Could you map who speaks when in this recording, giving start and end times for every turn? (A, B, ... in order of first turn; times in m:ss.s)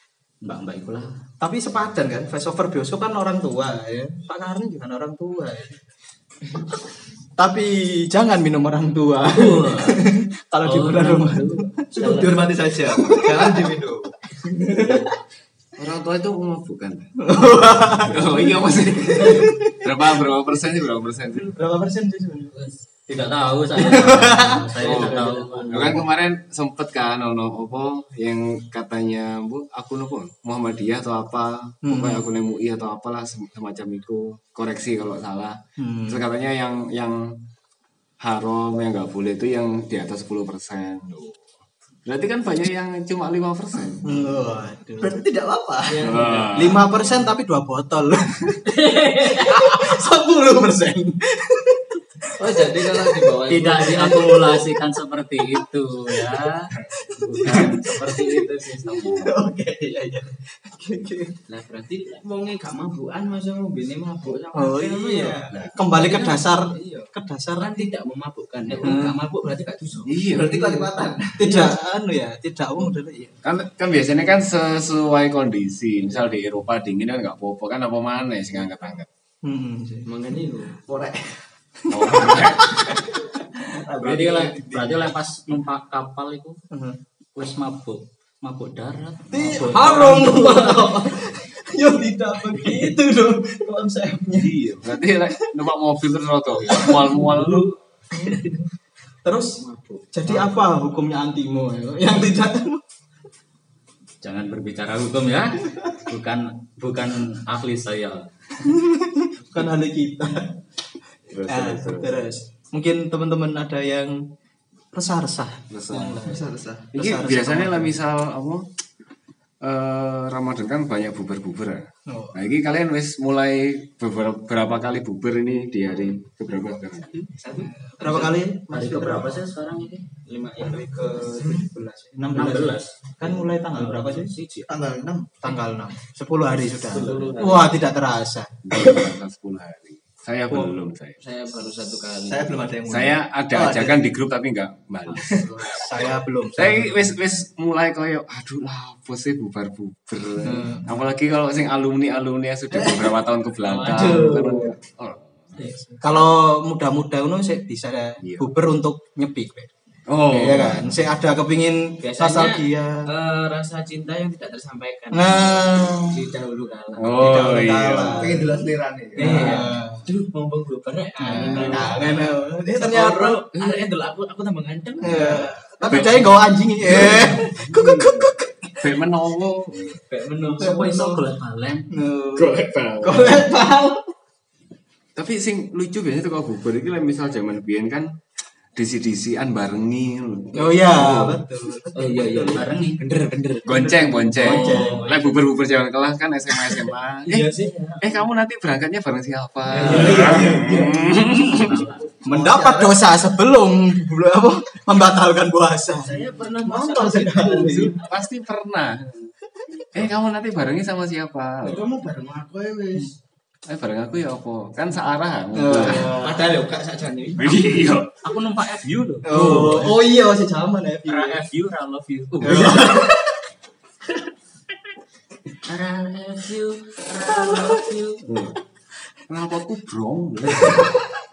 0:00.4-0:01.2 A
0:01.4-0:05.8 B
0:07.4-0:12.2 B
0:09.3-0:10.1 A
0:10.6-0:12.3 A
0:12.0-0:14.1 C
0:12.0-0:12.5 D
0:13.0-0:13.7 B
0:14.4-0:15.1 B
0:15.8-0:17.1 E
0:17.2-0:18.4 B
0:17.7-0:21.6 E
0:19.2-0:19.8 B
0:21.4-0:22.6 B
0:23.1-0:26.0 A
0:23.8-0:24.7 B
0:24.8-0:26.0 D
0:24.8-0:37.4 E
0:31.8-0:32.2 B
0:35.8-0:36.2 B
0:38.2-0:41.4 E
0:42.1-0:44.3 E
0:44.0-0:45.2 B
0:45.0-0:46.2 C
0:45.8-0:46.8 D
0:46.0-0:46.9 E
0:46.5-0:48.7 B
0:48.7-0:49.8 A
0:49.3-0:51.9 B
0:52.4-0:54.6 D
0:53.5-0:59.4 A
0:57.4-0:58.3 B
0:58.9-1:01.4 B
1:01.5-1:10.3 D
1:04.5-1:07.9 B
1:08.8-1:09.2 B
1:10.0-1:10.6 E
1:10.3-1:11.6 C
1:11.4-1:13.4 B
1:13.4-1:19.1 E
1:19.4-1:20.1 B
1:20.0-1:20.9 D
1:20.8-1:21.3 C
1:21.8-1:23.0 B
1:21.9-1:22.8 E
1:23.7-1:25.0 C
1:24.0-1:26.6 A
1:26.7-1:27.0 B
1:27.4-1:30.8 A
1:29.3-1:34.6 B
1:29.7-1:30.9 D
1:34.3-1:37.7 E
1:36.7-1:37.3 B
1:38.1-1:38.4 B
1:39.2-1:39.6 B
1:39.6-1:40.1 D
1:40.1-1:42.8 B
1:44.2-1:48.3 A
1:48.6-1:50.6 B
1:51.3-1:52.2 E
1:51.5-1:54.2 B
1:54.9-1:56.4 B
1:55.7-1:56.2 E
1:56.2-1:56.9 C
1:56.9-1:58.0 B
1:56.9-1:58.6 E
1:59.6-2:07.2 E
2:02.1-2:02.4 B
2:07.3-2:08.4 D
2:07.8-2:09.4 B
2:08.7-2:10.1 A
2:10.2-2:11.7 D
2:10.8-2:14.3 B
2:12.3-2:13.0 A
2:13.2-2:14.7 D
2:14.7-2:15.4 C
2:15.4-2:18.6 B
2:16.9-2:17.8 D
2:17.0-2:17.4 A
2:18.6-2:21.2 E
2:21.2-2:22.8 D
2:22.2-2:24.0 C
2:22.9-2:25.5 E
2:25.1-2:26.2 D
2:25.7-2:27.0 B
2:26.6-2:35.6 E
2:30.4-2:30.9 B
2:33.6-2:34.8 D
2:35.6-2:36.0 D
2:36.0-2:39.7 B
2:38.2-2:38.5 E
2:40.1-2:41.0 E
2:40.3-2:43.1 B
2:42.0-2:47.3 D
2:45.1-2:46.2 B
2:47.0-2:48.4 E
2:47.0-2:48.5 B
2:48.2-2:49.6 C
2:49.2-2:56.1 D
2:49.2-2:50.1 B
2:51.2-2:53.5 B
2:55.0-2:58.8 B
2:55.9-2:56.3 E
2:56.8-3:00.0 E
3:00.0-3:01.2 D
3:00.5-3:01.9 A
3:01.9-3:04.0 B
3:02.4-3:03.4 E
3:05.2-3:08.2 E
3:08.8-3:11.4 E
3:10.5-3:12.8 B
3:11.9-3:15.2 D
3:12.4-3:13.0 A
3:13.6-3:21.8 E
3:13.7-3:15.0 B
3:14.4-3:15.3 A
3:17.3-3:18.2 D
3:19.7-3:20.9 D
3:19.7-3:21.2 B
3:19.9-3:22.1 A
3:22.2-3:28.0 B
3:22.3-3:22.8 C
3:26.0-3:28.0 D
3:27.7-3:29.3 E
3:29.9-3:31.8 E
3:31.6-3:33.1 D
3:33.7-3:36.1 E
3:35.5-3:36.4 B
3:35.8-3:37.8 D
3:37.4-3:38.2 E
3:38.2-3:39.9 A
3:39.2-3:41.4 B
3:39.3-3:39.9 E
3:41.1-3:43.0 A
3:42.4-3:43.4 B
3:45.7-3:48.3 A
3:48.3-3:48.6 E
3:49.3-3:51.0 E